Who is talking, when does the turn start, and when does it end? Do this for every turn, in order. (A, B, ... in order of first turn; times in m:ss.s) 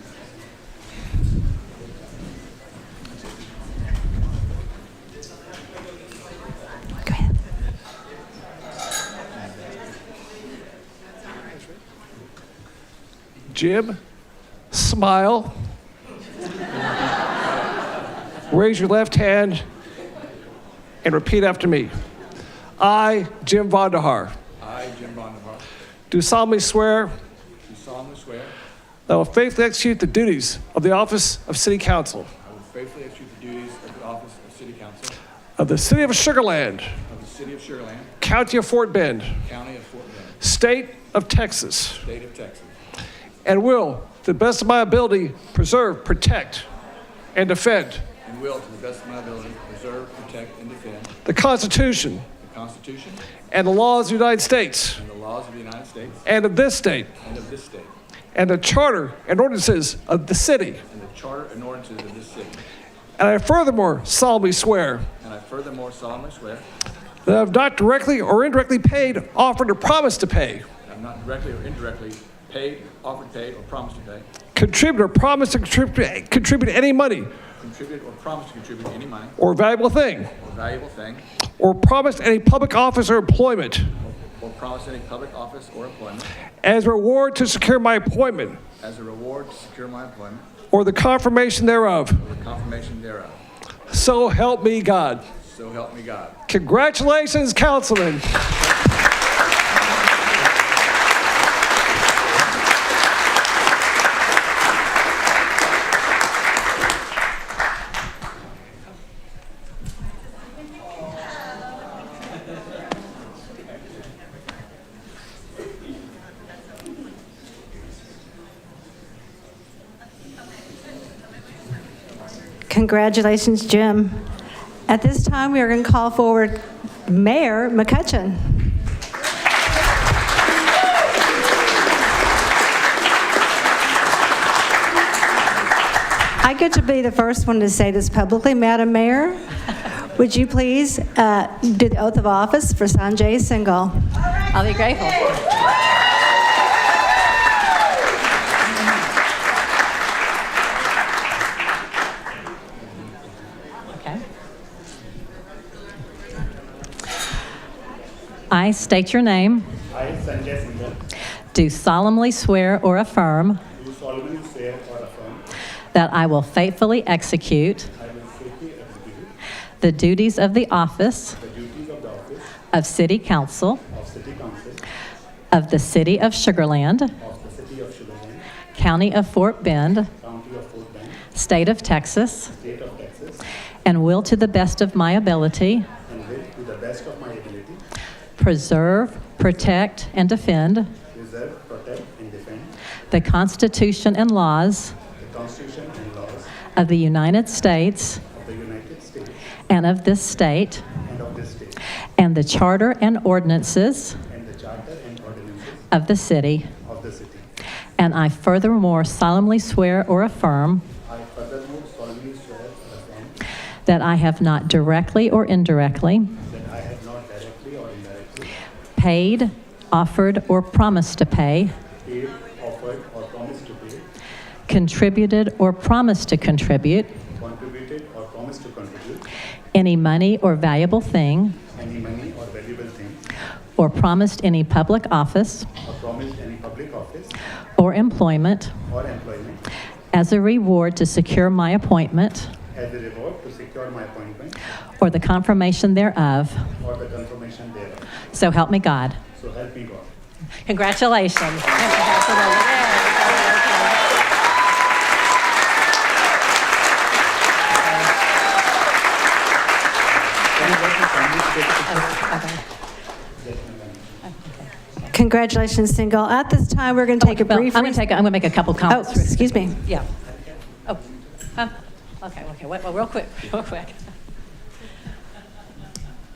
0:07.0-0:07.4 A
0:13.5-0:14.0 B
0:14.7-0:15.5 B
0:18.5-0:19.6 B
0:21.0-0:21.9 B
0:22.8-0:24.3 B
0:24.6-0:25.6 C
0:26.1-0:27.1 B
0:27.7-0:28.5 C
0:29.1-0:32.3 B
0:32.4-0:35.2 C
0:35.6-0:36.9 B
0:37.1-0:38.1 C
0:38.2-0:39.3 B
0:39.4-0:40.4 C
0:40.4-0:42.0 B
0:42.0-0:42.7 C
0:43.4-0:46.7 B
0:47.3-0:48.0 B
0:48.2-0:51.1 C
0:51.2-0:52.2 B
0:52.4-0:53.2 C
0:53.5-0:55.0 B
0:55.0-0:56.2 C
0:56.2-0:57.1 B
0:57.2-0:57.9 C
0:58.3-1:00.8 B
1:00.9-1:02.6 C
1:03.2-1:05.0 B
1:05.2-1:06.6 C
1:07.2-1:10.6 B
1:10.8-1:14.2 C
1:14.5-1:17.3 B
1:17.6-1:19.4 C
1:19.4-1:20.3 B
1:20.4-1:21.2 C
1:21.6-1:23.9 B
1:24.0-1:26.3 C
1:26.6-1:28.6 B
1:28.8-1:30.4 C
1:30.7-1:32.2 B
1:32.2-1:33.4 C
1:33.9-1:35.2 B
1:35.4-1:36.4 C
1:36.5-1:38.4 B
2:02.7-2:04.3 A
2:04.9-2:08.8 A
2:16.4-2:19.4 A
2:20.2-2:24.2 A
2:24.5-2:25.5 D
2:33.9-2:34.2 D
2:38.5-2:39.7 D
2:39.9-2:41.0 E
2:41.5-2:43.6 D
2:43.7-2:45.4 E
2:45.9-2:47.9 D
2:47.9-2:49.3 E
2:49.8-2:51.4 D
2:51.4-2:52.5 E
2:52.7-2:53.8 D
2:53.9-2:54.8 E
2:55.5-2:57.1 D
2:57.2-2:58.4 E
2:58.7-3:00.1 D
3:00.1-3:01.2 E
3:01.3-3:02.5 D
3:02.5-3:03.4 E
3:03.8-3:05.9 D
3:06.0-3:07.8 E
3:08.4-3:10.9 D
3:11.1-3:12.7 E
3:13.1-3:15.0 D
3:15.2-3:16.5 E
3:16.7-3:18.2 D
3:18.3-3:19.4 E
3:19.7-3:20.8 D
3:21.0-3:21.8 E
3:22.2-3:24.2 D
3:24.3-3:25.9 E
3:25.9-3:26.7 D
3:26.8-3:27.5 E
3:28.0-3:30.8 D
3:31.0-3:33.4 E
3:33.8-3:36.3 D
3:36.4-3:38.6 E
3:38.9-3:41.7 D
3:42.0-3:44.0 E
3:44.7-3:47.1 D
3:47.4-3:49.2 E
3:49.7-3:51.6 D
3:51.7-3:53.2 E
3:53.8-3:55.7 D
3:55.8-3:57.4 E
3:57.8-3:58.7 D
3:58.8-3:59.6 E
4:00.1-4:02.5 D
4:02.7-4:04.6 E
4:05.0-4:06.7 D
4:06.8-4:08.0 E
4:08.3-4:09.2 D
4:09.3-4:10.1 E
4:10.6-4:14.2 D
4:11.6-4:14.2 E
4:20.1-4:22.2 E
4:21.9-4:22.6 D
4:23.4-4:24.2 E
4:24.4-4:24.6 D
4:25.1-4:28.0 A
4:27.2-4:30.1 D
4:28.9-4:29.8 A
4:31.6-4:34.0 D